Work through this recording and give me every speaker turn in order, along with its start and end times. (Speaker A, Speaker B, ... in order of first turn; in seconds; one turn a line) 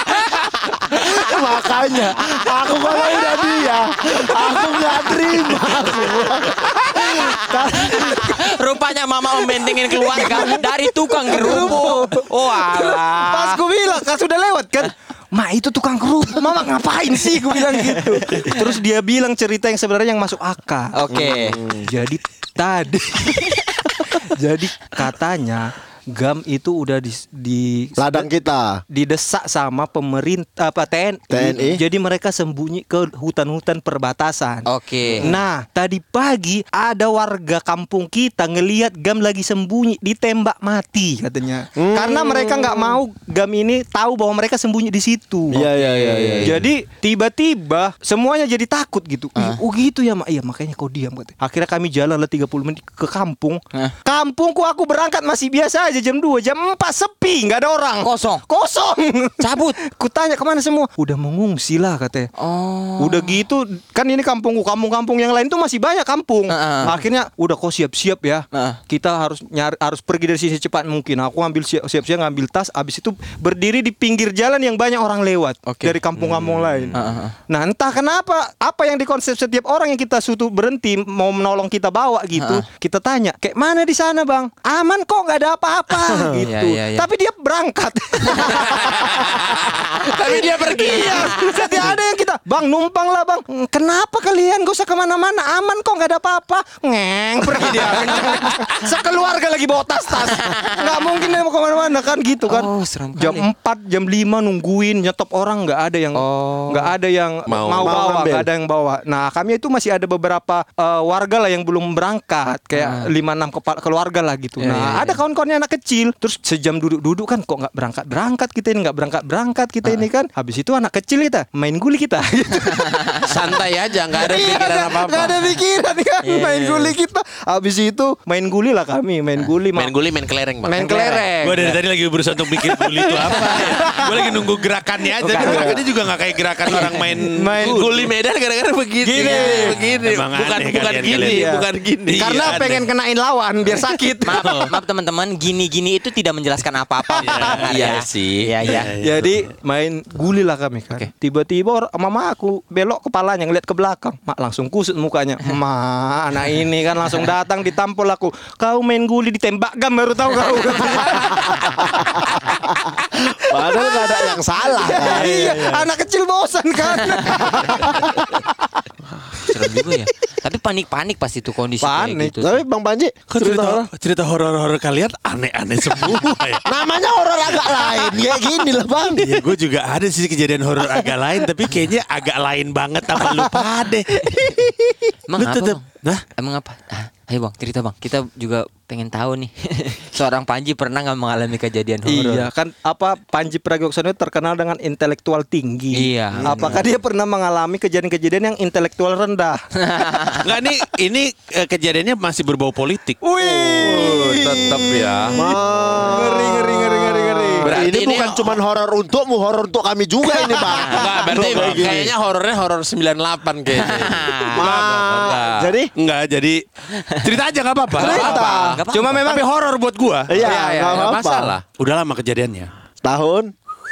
Speaker A: 0.9-8.4
Speaker B: 4.5-6.3
Speaker C: 7.0-13.6
Speaker B: 7.8-8.3
Speaker B: 9.5-21.0
Speaker C: 17.9-18.6
Speaker C: 20.9-21.6
Speaker A: 21.1-21.9
Speaker B: 21.7-28.3
Speaker A: 28.0-28.8
Speaker B: 28.9-45.7
Speaker A: 31.3-31.8
Speaker C: 34.6-35.3
Speaker A: 41.8-43.0
Speaker A: 45.5-46.7
Speaker C: 45.7-46.5
Speaker B: 46.4-62.3
Speaker C: 49.4-49.6
Speaker C: 58.0-58.4
Speaker C: 59.4-59.8
Speaker C: 62.4-63.4
Speaker B: 63.0-123.5
Speaker C: 66.5-67.0
Speaker C: 68.5-68.8
Speaker C: 75.7-76.0
Speaker C: 76.9-77.4
Speaker C: 82.4-82.6
Speaker A: 86.0-86.5
Speaker C: 86.4-87.1
Speaker D: 88.7-89.4
Speaker D: 90.0-91.5
Speaker C: 90.7-91.9
Speaker D: 97.7-98.0
Speaker C: 102.5-103.5
Speaker C: 106.1-106.9
Speaker D: 107.5-108.0
Speaker A: 107.8-108.5
Speaker C: 112.7-113.1
Speaker C: 114.6-115.2
Speaker D: 123.2-125.6
Speaker B: 124.1-129.9
Speaker C: 126.2-127.0
Speaker D: 129.7-131.0
Speaker B: 130.7-131.8
Speaker C: 130.7-131.3
Speaker E: 131.4-137.8
Speaker B: 132.6-134.4
Speaker B: 135.2-135.9
Speaker A: 135.4-135.8
Speaker B: 136.7-138.1
Speaker D: 137.6-142.8
Speaker B: 139.0-139.9
Speaker C: 139.2-139.8
Speaker E: 140.0-141.5
Speaker B: 141.2-144.7
Speaker E: 142.1-142.8
Speaker C: 144.2-148.9
Speaker B: 147.2-147.6
Speaker D: 147.2-148.6
Speaker E: 148.6-149.4
Speaker B: 149.0-168.4
Speaker A: 163.4-165.7
Speaker E: 165.0-165.9
Speaker A: 167.3-168.2
Speaker C: 169.4-172.6
Speaker B: 171.8-172.3
Speaker A: 172.4-173.9
Speaker E: 173.3-176.7
Speaker A: 176.6-179.4
Speaker E: 179.1-184.6
Speaker C: 185.3-185.8
Speaker E: 185.4-186.2
Speaker C: 186.4-192.5
Speaker B: 192.1-200.4
Speaker C: 195.9-196.8
Speaker A: 196.5-196.8
Speaker C: 199.8-200.4
Speaker E: 200.4-203.2
Speaker B: 203.2-207.7
Speaker A: 203.4-212.1
Speaker D: 203.9-205.4
Speaker D: 207.6-208.6
Speaker B: 210.3-211.1
Speaker C: 210.4-211.2
Speaker D: 210.9-215.7
Speaker E: 211.4-211.9
Speaker C: 213.7-214.6
Speaker A: 214.6-215.9
Speaker E: 215.9-216.6
Speaker C: 216.9-217.4
Speaker E: 217.2-218.4
Speaker A: 218.0-218.8
Speaker D: 218.0-218.8
Speaker B: 218.2-219.4
Speaker C: 218.3-219.3
Speaker E: 219.2-220.4
Speaker A: 220.3-221.6
Speaker B: 220.3-221.1
Speaker D: 220.4-221.6
Speaker E: 221.8-222.7
Speaker A: 223.0-223.5